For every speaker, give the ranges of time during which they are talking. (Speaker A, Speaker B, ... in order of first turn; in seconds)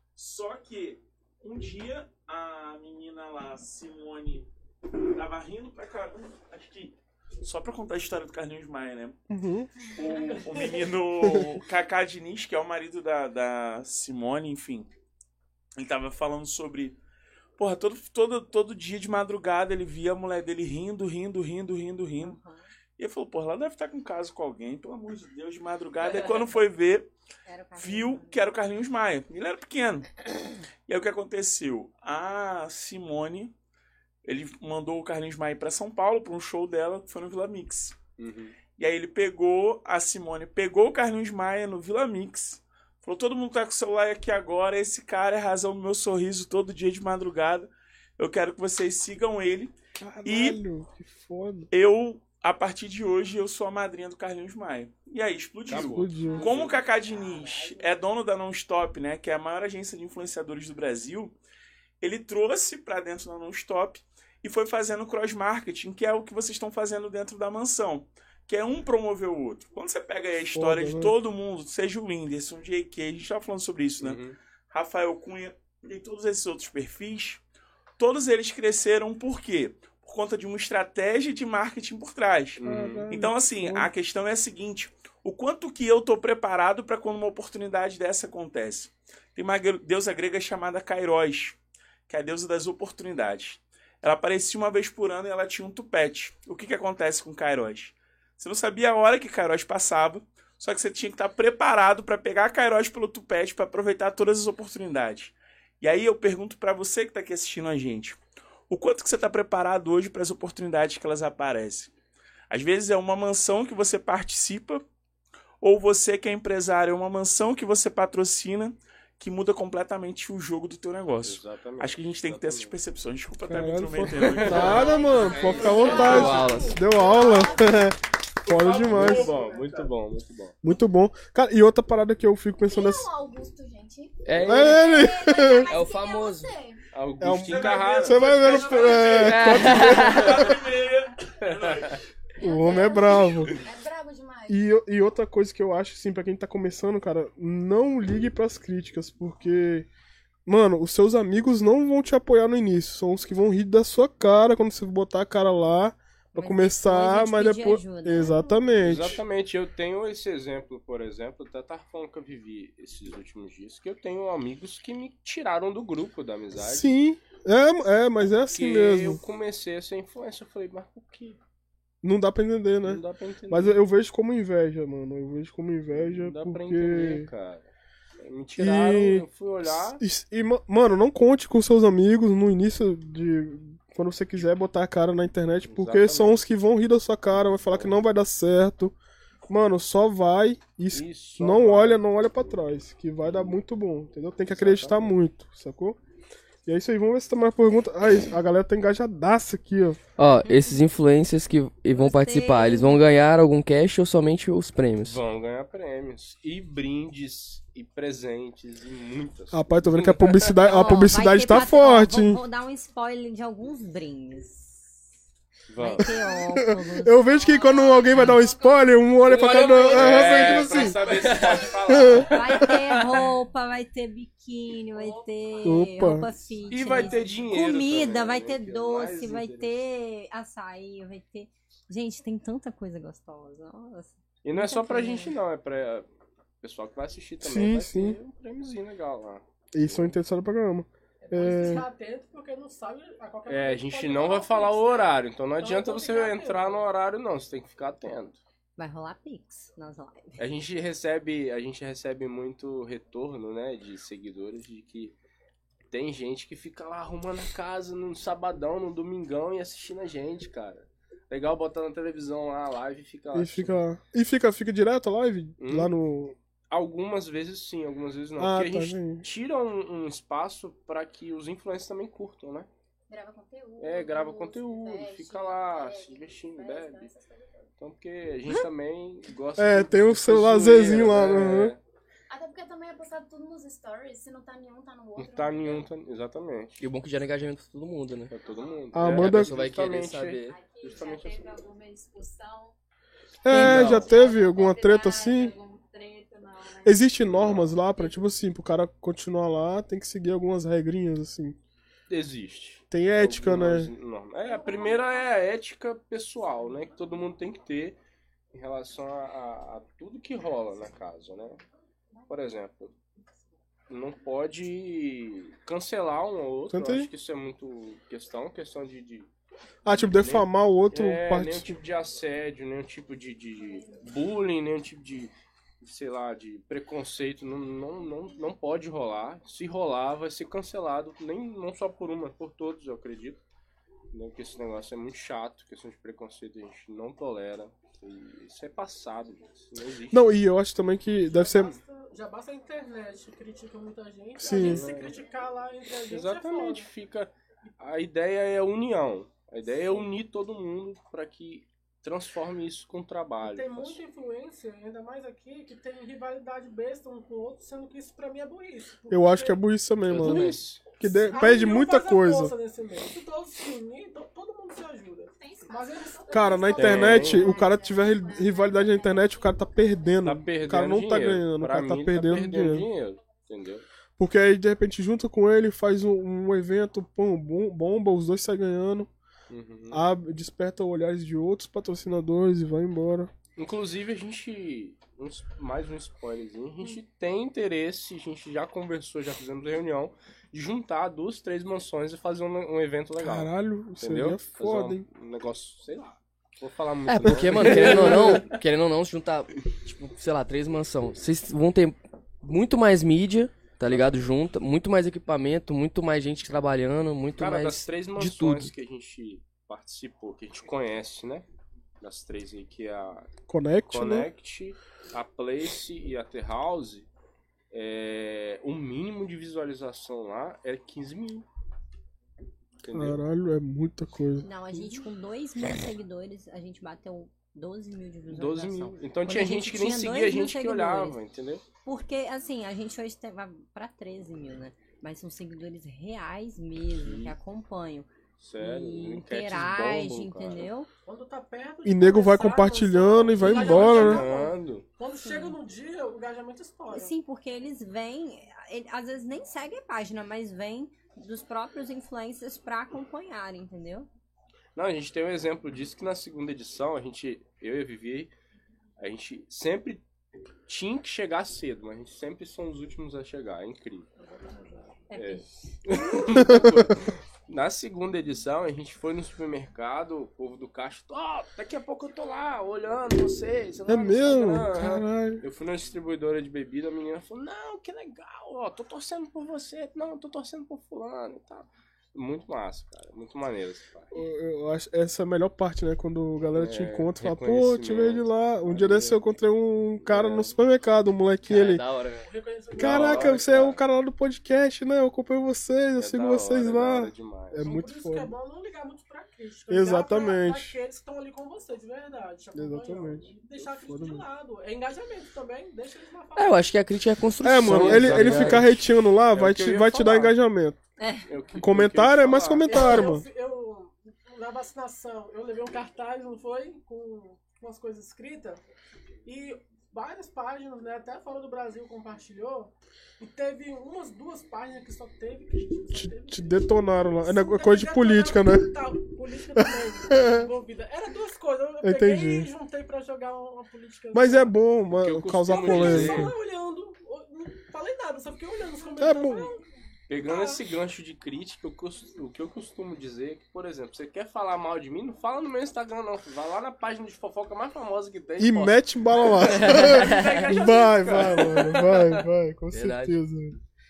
Speaker A: 0.1-9.2, 9.9-14.9, 15.8-17.0, 17.6-22.4, 23.0-27.1, 27.8-33.5, 34.2-38.0, 38.7-50.6, 51.7-61.4, 62.0-77.4, 78.0-111.9, 112.5-114.8, 115.6-125.0, 128.4-129.5, 137.5-142.0
Speaker B: 9.3-9.7, 11.2-11.6, 50.0-51.7, 55.7-56.5, 70.5-71.1, 82.6-83.9, 123.5-129.3, 130.6-133.1, 134.4-135.7, 137.2-140.7, 142.4-143.6, 144.5-149.9, 150.4-159.2, 166.5-169.2, 172.0-177.3, 178.6-188.9, 189.5-196.0, 196.7-200.0, 209.5-212.4, 216.0-221.1, 221.9-222.3, 225.6-226.3, 237.4-238.2, 239.7-241.9, 263.3-266.4, 268.4-269.2, 279.6-281.7, 288.9-289.5, 293.4-295.5, 296.8-301.6, 302.9-303.9, 316.7-317.1, 319.8-321.7, 340.1-341.8, 344.4-344.9, 359.1-362.5, 366.3-372.9, 374.2-379.1, 379.9-383.3, 393.2-395.0, 397.4-398.5, 413.5-414.3, 422.9-424.5, 441.8-444.3, 466.3-466.8, 473.9-475.4, 484.1-491.8, 492.8-498.3, 499.7-500.8, 502.5-503.3, 503.9-504.2, 507.4-510.8, 511.6-513.2, 525.9-529.0, 529.5-530.5, 531.8-532.5, 534.1-536.3, 539.0-539.5, 548.4-553.6
Speaker C: 22.2-22.7, 27.4-28.4, 156.3-158.6, 200.4-200.7, 201.9-203.0, 210.6-215.1, 215.8-217.2, 222.3-235.3, 248.8-250.4, 424.4-431.2, 431.8-440.9, 445.2-445.6, 446.9-454.1, 465.1-466.5, 511.0-511.3
Speaker D: 38.2-38.6, 55.7-56.8, 74.0-74.4, 82.6-83.1, 121.2-122.8, 124.1-126.5, 128.7-130.5, 134.3-134.8, 136.9-140.4, 141.4-142.0, 158.8-166.9, 168.5-171.4, 172.8-173.8, 175.9-177.7, 178.2-180.0, 184.3-184.6, 185.6-186.4, 187.7-188.0, 190.9-192.2, 193.2-193.6, 194.5-195.2, 205.0-210.6, 215.7-216.2, 219.2-223.3, 226.7-229.8, 234.4-236.1, 236.6-240.1, 243.5-248.4, 250.4-255.2, 255.9-263.7, 265.6-265.9, 266.7-272.7, 273.8-277.1, 277.8-281.8, 285.1-286.8, 288.3-291.5, 293.5-294.1, 297.2-297.8, 302.1-308.0, 308.5-311.6, 312.3-312.9, 313.9-319.3, 319.9-333.4, 334.1-340.3, 344.5-345.2, 346.1-354.0, 360.0-360.9, 366.7-367.6, 370.2-373.8, 379.5-380.0, 383.6-398.6, 403.9-404.3, 407.4-411.4, 412.0-413.3, 413.9-417.1, 417.7-421.5, 422.8-423.2, 428.3-431.6, 436.9-437.3, 438.4-440.7, 443.4-444.9, 454.8-458.3, 459.0-460.0, 460.7-464.1, 465.1-484.1, 486.5-489.2, 490.0-490.6, 492.8-493.8, 496.0-497.6, 507.6-510.4, 511.3-513.0, 534.9-536.4, 540.1-549.6, 550.5-552.2
Speaker E: 124.6-127.8, 132.6-136.8, 142.4-144.7, 273.1-277.7, 282.3-285.9
Speaker F: 124.8-127.6, 137.7-139.2, 241.2-246.8, 341.2-346.9, 353.4-359.6, 361.1-367.0, 441.1-447.1, 492.2-493.3, 497.6-506.7, 512.7-518.6, 519.2-526.6, 527.2-534.5, 535.5-539.6, 540.2-540.7, 549.6-551.8
Speaker G: 126.0-126.8, 134.2-134.8, 135.6-136.5, 139.2-140.4, 200.2-205.2, 219.9-220.3, 221.2-221.5, 286.8-288.3, 289.0-290.5, 293.5-294.0, 360.2-360.5, 397.1-408.7, 491.4-492.3, 506.4-508.8, 549.5-550.5, 552.7-553.2
Speaker H: 217.2-218.9, 220.3-221.8, 224.9-225.8, 226.6-227.4, 290.4-292.7, 293.8-297.2, 297.9-298.2, 365.4-369.5